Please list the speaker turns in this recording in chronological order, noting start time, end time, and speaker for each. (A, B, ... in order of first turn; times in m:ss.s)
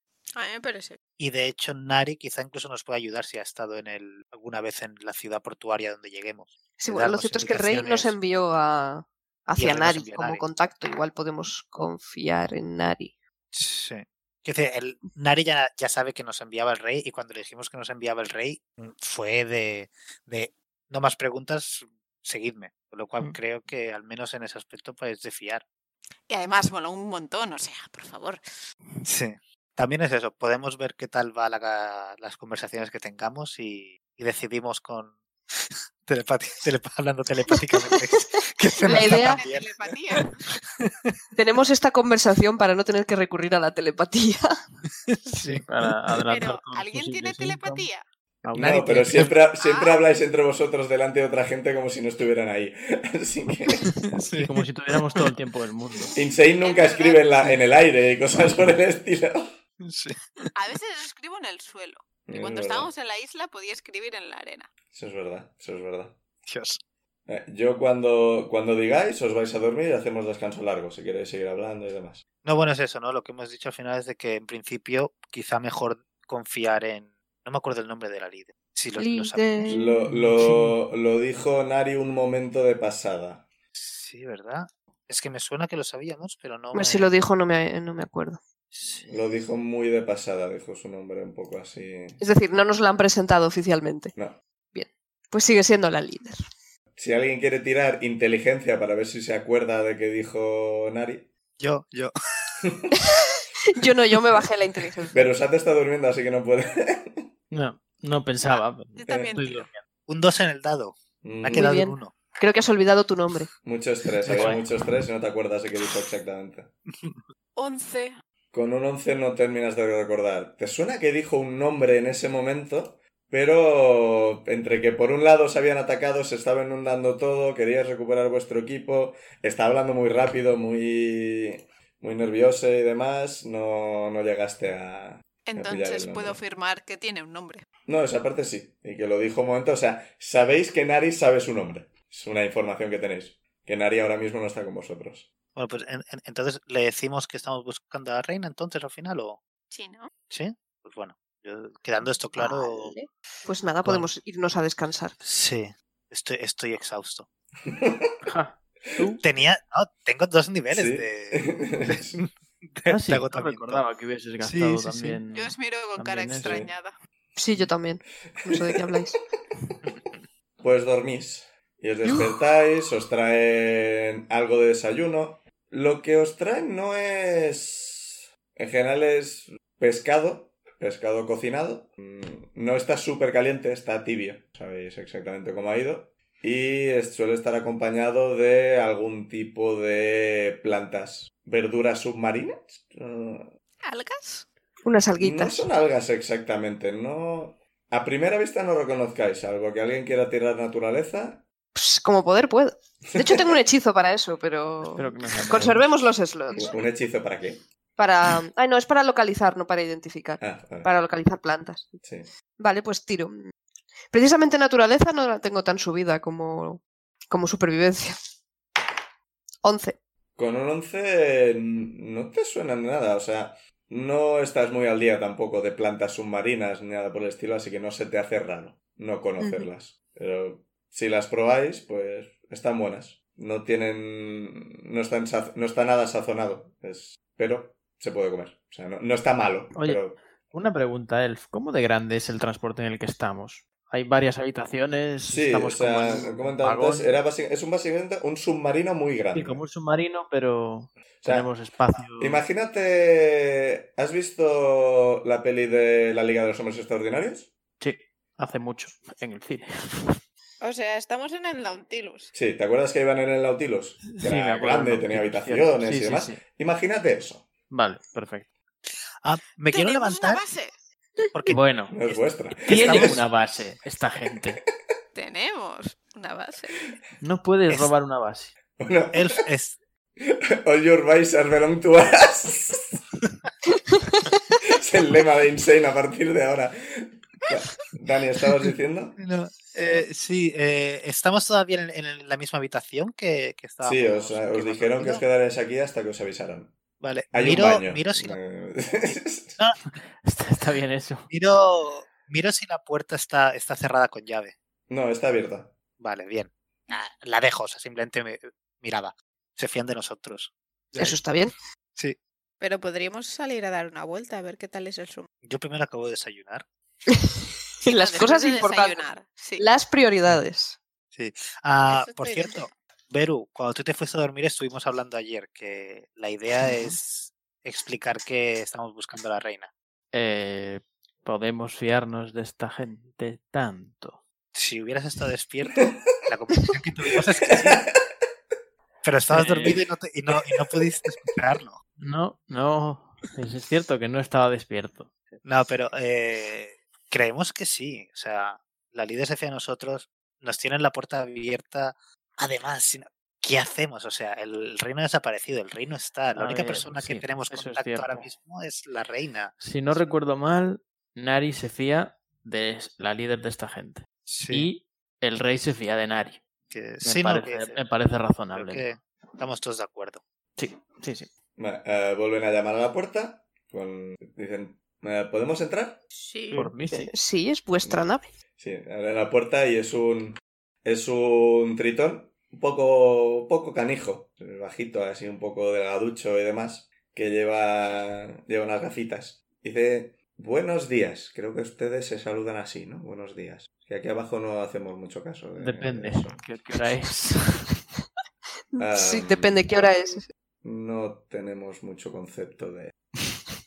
0:00.4-0:01.0 A
0:01.2-0:08.1 B
0:06.8-0:13.1 C
0:09.6-0:10.4 B
0:13.5-0:25.6 B
0:26.3-0:28.4 A
0:29.0-0:40.2 B
0:38.8-0:39.4 C
0:38.8-0:40.3 A
0:40.8-0:41.1 B
0:41.3-0:44.6 C
0:45.1-0:45.6 B
0:45.4-0:47.9 D
0:46.3-0:48.0 A
0:48.4-0:49.3 D
0:48.5-0:53.9 E
0:48.5-0:49.4 B
0:49.6-0:50.0 A
0:53.9-0:55.3 B
0:54.3-0:56.1 D
0:56.1-0:59.5 E
0:56.6-0:57.2 A
0:59.8-1:00.5 B
1:00.5-1:04.7 A
1:02.3-1:02.9 E
1:04.9-1:06.2 E
1:06.4-1:06.8 B
1:07.3-1:12.2 E
1:12.4-1:19.7 B
1:19.0-1:20.0 C
1:19.7-1:23.5 E
1:20.1-1:20.8 D
1:23.7-1:27.1 B
1:26.7-1:28.4 C
1:28.7-1:29.0 B
1:29.0-1:32.2 E
1:32.2-1:34.1 C
1:34.7-1:36.4 C
1:37.0-1:41.3 E
1:41.6-1:42.1 B
1:42.6-1:42.9 E
1:43.7-1:45.3 C
1:45.1-1:47.3 E
1:47.5-1:49.8 D
1:49.0-1:49.6 A
1:49.1-1:49.4 E
1:50.1-1:52.1 B
1:51.2-1:51.7 E
1:51.5-1:53.5 C
1:53.6-1:56.7 E
1:54.2-1:54.6 D
1:57.6-1:58.2 A
1:58.5-2:16.4 E
2:15.4-2:17.6 A
2:17.9-2:25.3 E
2:25.5-2:29.4 B
2:29.7-2:30.1 A
2:30.3-2:33.0 B
2:32.4-2:35.1 C
2:35.2-2:37.3 B
2:37.7-2:38.1 E
2:38.2-2:39.2 D
2:39.2-2:43.8 B
2:40.7-2:42.2 E
2:42.9-2:46.6 D
2:44.4-2:45.2 B
2:45.3-2:46.9 A
2:46.4-2:46.7 E
2:47.4-2:49.2 C
2:48.5-2:48.8 E
2:50.6-3:13.5 E
3:13.8-3:14.5 A
3:14.8-3:15.6 C
3:15.2-3:21.4 E
3:21.7-3:26.7 C
3:23.1-3:23.5 E
3:25.0-3:25.9 D
3:26.5-3:27.6 E
3:28.0-3:32.0 C
3:30.4-3:30.9 E
3:32.0-3:32.3 E
3:32.6-3:33.4 C
3:34.1-3:38.2 C
3:39.6-3:40.0 C
3:40.4-4:00.2 E
3:49.4-3:49.7 C
3:59.7-4:07.1 D
4:05.2-4:09.6 E
4:09.3-4:12.4 D
4:11.2-4:11.5 E
4:12.2-4:17.5 E
4:17.8-4:20.2 D
4:20.6-4:22.3 A
4:22.3-4:27.5 E
4:24.0-4:26.4 D
4:27.7-4:28.5 D
4:29.2-4:30.4 B
4:29.7-4:30.7 A
4:31.3-4:33.2 B
4:31.5-4:32.0 D
4:31.9-4:33.2 E
4:32.6-4:34.6 D
4:35.1-4:36.9 A
4:37.2-4:38.5 D
4:38.8-4:39.4 E
4:39.1-4:39.8 B
4:40.2-4:43.0 E
4:44.6-4:49.2 E
4:49.2-4:55.2 B
4:53.8-4:56.7 E
4:57.0-4:58.4 B
4:57.3-4:59.6 E
4:59.0-4:59.8 B
4:59.8-5:01.3 D
5:01.3-5:04.5 B
5:04.9-5:05.7 E
5:06.0-5:11.2 B
5:11.0-5:11.5 C
5:12.6-5:15.3 A
5:15.4-5:16.6 B
5:17.8-5:19.0 C
5:17.9-5:19.7 A
5:19.6-5:20.8 C
5:21.1-5:29.7 B
5:21.9-5:22.5 A
5:30.1-5:34.2 D
5:34.5-5:37.8 B
5:37.6-5:38.0 E
5:39.0-5:41.8 B
5:39.3-5:39.8 D
5:42.0-5:45.1 D
5:45.4-6:00.0 B
5:56.4-5:58.3 D
5:59.6-6:06.4 D
6:04.2-6:04.7 B
6:06.7-6:07.8 B
6:07.0-6:08.9 D
6:08.5-6:10.2 B
6:10.6-6:11.3 D
6:11.6-6:16.0 E
6:16.1-6:16.6 A
6:16.5-6:17.1 D
6:16.9-6:18.3 C
6:17.8-6:36.4 E
6:35.6-6:37.7 D
6:38.7-6:40.3 C
6:38.8-6:39.7 E
6:40.6-6:43.0 E